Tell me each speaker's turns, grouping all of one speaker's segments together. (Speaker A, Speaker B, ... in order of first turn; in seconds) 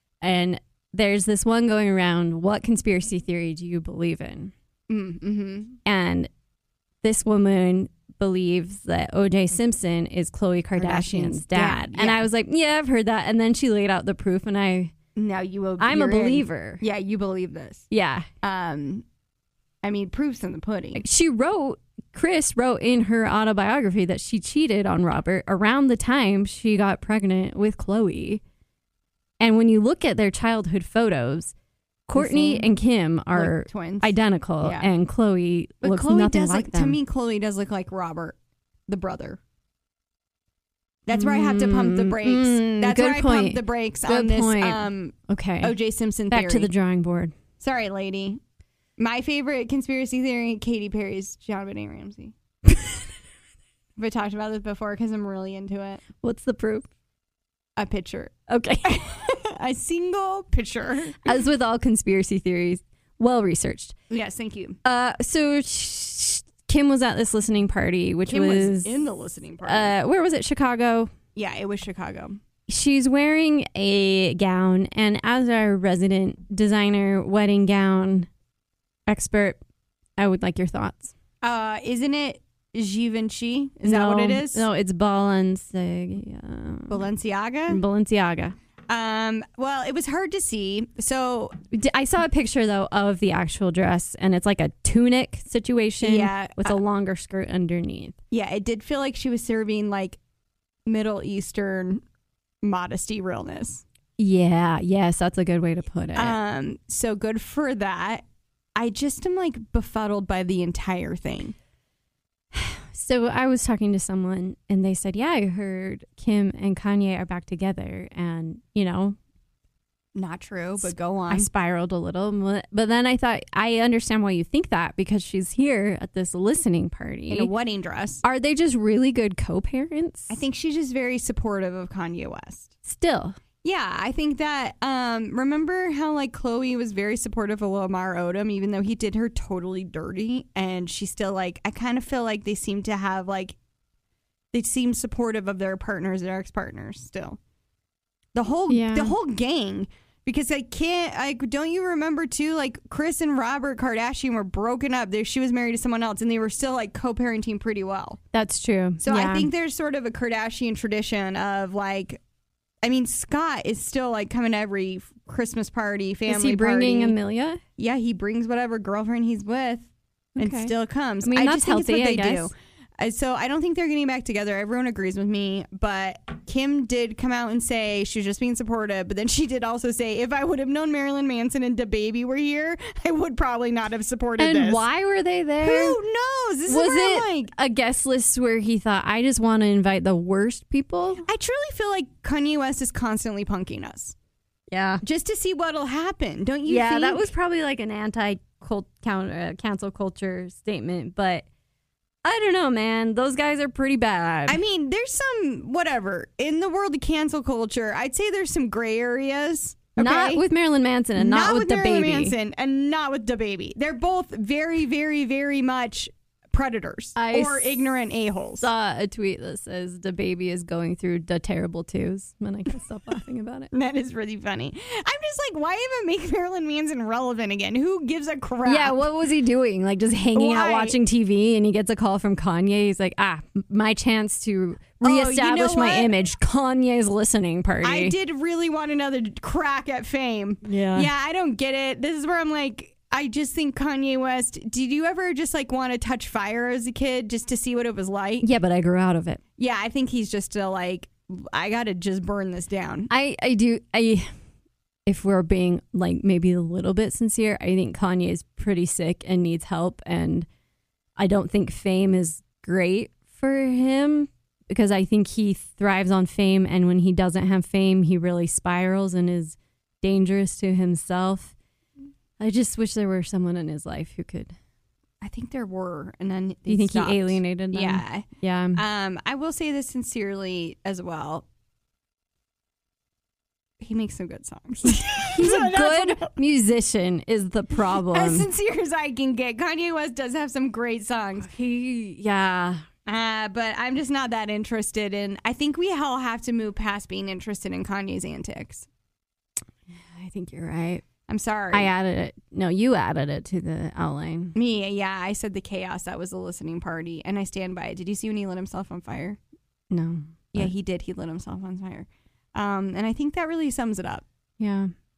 Speaker A: 0.2-4.5, 5.8-6.3, 7.0-14.9, 15.8-16.8, 17.9-18.3, 20.9-28.4, 29.4-31.5, 32.1-37.0, 41.1-45.8, 46.3-47.4, 56.2-56.9, 58.5-59.0, 61.2-63.9, 64.8-68.9, 69.6-71.1, 72.7-78.3, 79.1-79.6, 80.2-81.1, 83.8-87.0, 87.7-88.5, 91.7-98.2, 104.2-106.4, 112.5-119.2, 120.8-127.5, 128.2-130.4, 132.9-133.4, 148.7-149.1, 158.3-159.5, 166.3-167.6, 170.4-172.5, 184.4-186.0, 186.7-191.2, 194.7-195.0, 196.7-201.4, 202.2-204.6, 210.0-212.3, 217.2-217.8, 218.6-223.7, 228.7-238.2, 240.6-241.1, 248.4-249.4, 253.1-254.3, 255.1-260.5, 261.2-271.5, 272.4-274.5, 276.7-278.8, 284.9-288.5, 291.4-292.9, 299.9-301.0, 301.7-304.6, 309.9-310.7, 314.6-314.9
Speaker B: 4.9-5.8, 10.8-12.3, 15.2-17.9, 18.4-19.1, 19.8-21.0, 32.1-32.7, 33.4-34.9, 35.8-38.4, 38.9-39.4, 41.1-46.7, 47.6-48.4, 49.0-52.4, 54.0-56.0, 57.8-61.3, 64.1-64.8, 68.3-70.0, 71.3-72.4, 81.4-84.7, 86.9-87.8, 88.9-91.5, 96.0-96.8, 98.3-100.2, 100.9-102.0, 102.6-103.8, 106.2-108.2, 108.8-111.6, 120.2-121.5, 127.3-128.2, 130.3-132.7, 133.6-143.6, 144.5-147.4, 148.3-158.2, 159.0-162.2, 162.8-167.2, 167.8-184.8, 185.6-187.5, 191.2-194.2, 195.0-197.3, 204.5-210.4, 211.2-218.7, 223.7-229.0, 230.3-231.0, 235.0-236.1, 237.8-248.5, 249.6-253.1, 275.2-281.4, 283.8-286.3, 287.9-291.5, 293.1-298.9, 301.3-301.9, 304.6-309.4, 310.5-314.2